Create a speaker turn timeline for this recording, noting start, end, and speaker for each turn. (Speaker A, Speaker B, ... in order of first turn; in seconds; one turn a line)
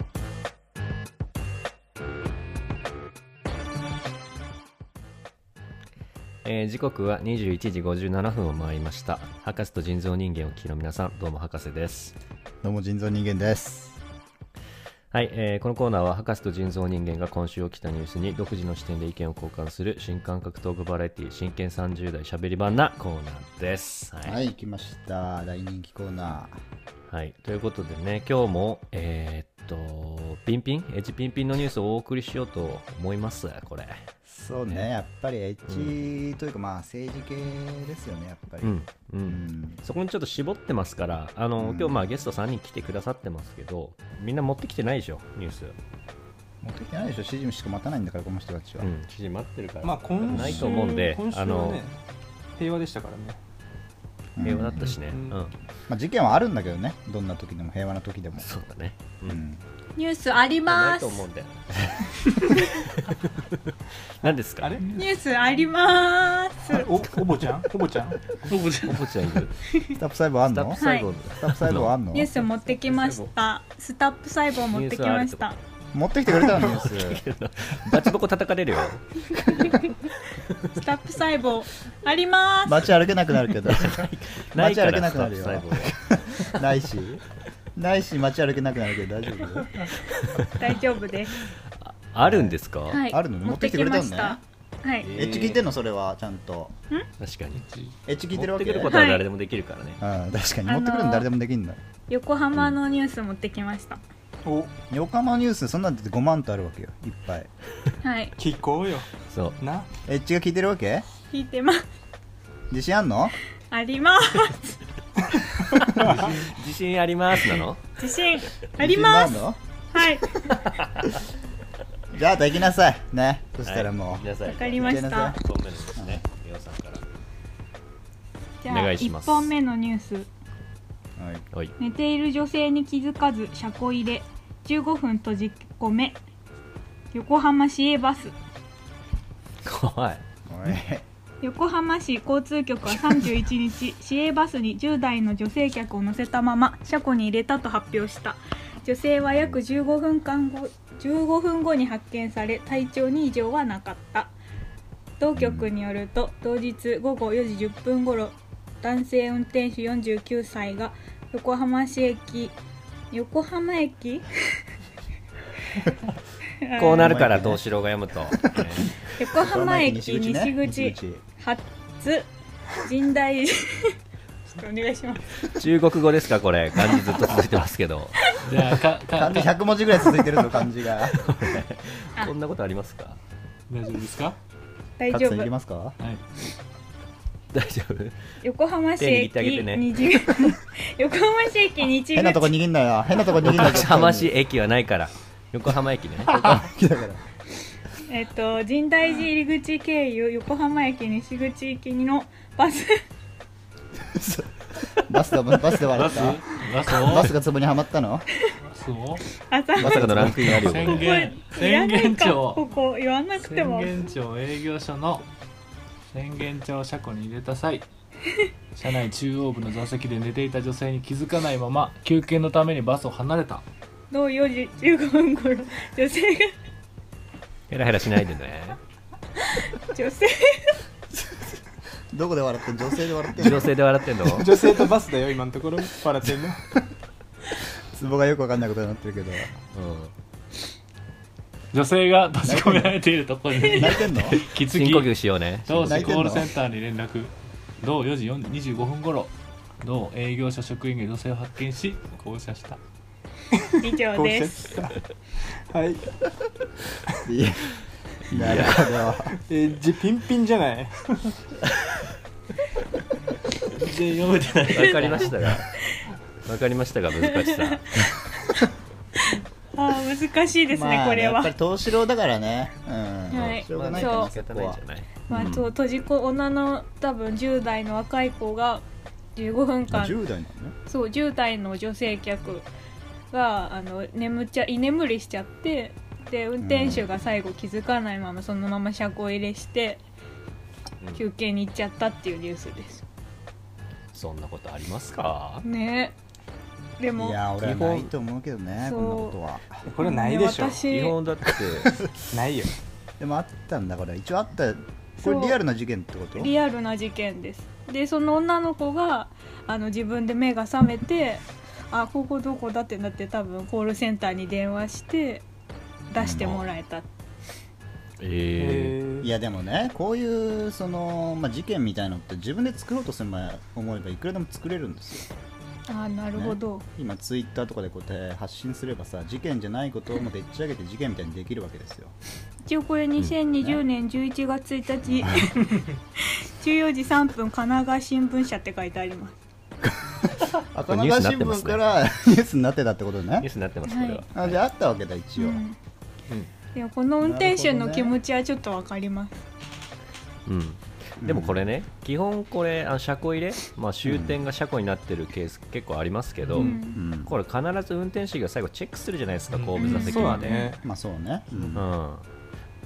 Speaker A: 6.4-12.2
Speaker B: 12.6-14.0
Speaker A: 15.1-24.4
Speaker B: 24.2-26.5
Speaker A: 27.1-34.0
Speaker B: 34.2-39.8
Speaker A: 35.6-35.9
Speaker A: 38.6-45.8
Speaker B: 41.6-42.0
Speaker B: 46.6-48.9
Speaker A: 48.8-51.8
Speaker C: 49.8-52.0
Speaker B: 50.3-50.7
Speaker D: 50.7-50.9
Speaker C: 52.5-53.4
Speaker B: 54.4-54.9
Speaker A: 54.4-55.5
Speaker C: 54.9-55.4
Speaker B: 55.9-58.6
Speaker A: 58.4-59.4
Speaker B: 59.2-59.6
Speaker D: 60.0-61.2
Speaker A: 60.6-64.8
Speaker C: 64.6-65.2
Speaker D: 64.9-67.0
Speaker C: 66.6-68.3
Speaker A: 68.5-69.6
Speaker E: 68.5-68.9
Speaker B: 70.0-72.3
Speaker A: 70.5-72.0
Speaker D: 70.8-71.1
Speaker D: 72.1-75.5
Speaker A: 72.8-73.3
Speaker A: 74.7-75.5
Speaker B: 75.9-77.2
Speaker A: 76.5-80.8
Speaker D: 79.6-79.9
Speaker D: 80.7-82.9
Speaker B: 82.6-87.2
Speaker A: 83.6-86.6
Speaker B: 87.8-89.9
Speaker A: 90.1-90.5
Speaker D: 90.5-91.4
Speaker A: 91.8-93.0
Speaker B: 92.2-92.5
Speaker D: 92.9-95.1
Speaker B: 93.1-94.4
Speaker A: 95.0-95.6
Speaker B: 95.0-96.7
Speaker A: 97.2-97.6
Speaker E: 97.6-97.9
Speaker B: 98.0-99.1
Speaker A: 98.3-100.0
Speaker D: 98.9-99.2
Speaker B: 100.0-101.8
Speaker D: 100.7-101.2
Speaker D: 102.1-104.0
Speaker C: 104.4-104.7
Speaker B: 104.9-107.5
Speaker D: 108.0-108.3
Speaker C: 108.4-109.9
Speaker A: 109.3-109.6
Speaker B: 110.0-111.1
Speaker D: 111.3-111.8
Speaker B: 112.7-113.4
Speaker D: 113.7-114.8
Speaker E: 115.9-116.5
Speaker A: 116.0-118.0
Speaker D: 118.0-119.4
Speaker B: 118.8-119.6
Speaker D: 119.9-120.4
Speaker A: 120.5-121.1
Speaker B: 122.1-125.4
Speaker A: 123.6-127.0
Speaker D: 124.4-125.4
Speaker B: 126.0-126.2
Speaker D: 128.6-130.3
Speaker A: 128.7-129.5
Speaker B: 131.2-131.5
Speaker D: 131.8-136.2
Speaker D: 137.1-138.3
Speaker A: 139.6-140.2
Speaker B: 140.5-141.1
Speaker D: 141.4-154.3
Speaker D: 155.2-162.5
Speaker B: 155.3-155.7
Speaker D: 163.1-164.6
Speaker D: 166.6-167.2
Speaker A: 166.8-169.0
Speaker B: 166.9-167.6
Speaker B: 168.3-171.2
Speaker D: 169.1-175.3
Speaker A: 175.4-178.2
Speaker E: 178.4-179.5
Speaker B: 179.1-181.2
Speaker A: 181.2-183.2
Speaker E: 183.7-184.4
Speaker D: 185.0-185.5
Speaker B: 185.1-186.0
Speaker A: 187.5-188.2
Speaker D: 188.4-192.5
Speaker A: 189.0-190.1
Speaker B: 192.1-194.3
Speaker A: 193.4-196.4
Speaker B: 196.3-197.3
Speaker D: 198.0-203.0
Speaker B: 204.0-208.3
Speaker E: 205.9-207.3
Speaker E: 208.7-209.2
Speaker D: 209.4-214.0
Speaker A: 209.8-211.2
Speaker B: 209.8-210.7
Speaker E: 210.5-212.6
Speaker E: 213.4-215.2
Speaker E: 216.1-217.9
Speaker E: 218.7-223.6
Speaker D: 224.1-226.5
Speaker A: 227.7-228.8
Speaker D: 229.4-230.8
Speaker B: 231.1-231.4
Speaker B: 232.1-233.7
Speaker A: 233.3-234.6
Speaker C: 234.2-236.7
Speaker B: 237.6-239.5
Speaker A: 239.7-240.1
Speaker E: 241.7-245.1
Speaker B: 242.4-243.0
Speaker B: 243.7-244.4
Speaker A: 244.3-246.5
Speaker E: 245.7-252.8
Speaker B: 245.8-246.5
Speaker C: 253.5-255.0
Speaker D: 253.8-254.7
Speaker C: 255.7-256.1
Speaker B: 257.1-259.3
Speaker A: 258.3-259.0
Speaker C: 259.3-261.4
Speaker A: 263.8-265.7
Speaker E: 264.1-264.6
Speaker D: 264.7-266.1
Speaker A: 266.4-268.1
Speaker D: 267.4-268.6
Speaker D: 269.2-271.5
Speaker B: 270.7-275.5
Speaker D: 273.3-274.3
Speaker A: 273.6-275.7
Speaker D: 275.3-278.8
Speaker D: 279.4-280.2
Speaker B: 279.9-280.7
Speaker D: 280.9-282.7
Speaker D: 283.3-290.0
Speaker B: 286.6-287.1
Speaker D: 291.1-293.0
Speaker A: 294.1-295.6
Speaker D: 295.6-296.1
Speaker D: 297.0-297.4
Speaker B: 297.1-299.8
Speaker A: 297.6-298.0
Speaker D: 298.8-299.4
Speaker C: 299.9-300.8
Speaker D: 300.0-301.1
Speaker A: 300.8-302.1
Speaker B: 301.8-302.1
Speaker C: 302.3-302.7
Speaker B: 303.2-306.5
Speaker D: 305.2-305.6
Speaker D: 306.3-315.4
Speaker D: 316.1-317.1
Speaker B: 316.2-316.7
Speaker A: 318.2-319.0
Speaker C: 318.6-319.3
Speaker B: 319.2-325.3
Speaker D: 325.9-326.8
Speaker B: 326.3-332.1
Speaker D: 332.6-339.3
Speaker B: 335.0-335.6
Speaker B: 339.8-343.5
Speaker A: 340.9-341.8
Speaker A: 343.4-344.6
Speaker D: 343.9-344.2
Speaker B: 344.3-345.6
Speaker D: 345.4-345.8
Speaker D: 346.7-349.4
Speaker B: 347.2-348.1
Speaker A: 350.4-360.7
Speaker B: 351.2-351.7
Speaker B: 354.0-354.4
Speaker D: 356.5-357.0
Speaker B: 356.9-357.3
Speaker E: 359.5-359.8
Speaker D: 359.8-360.7
Speaker C: 359.9-360.8
Speaker B: 360.8-361.9
Speaker A: 361.7-362.3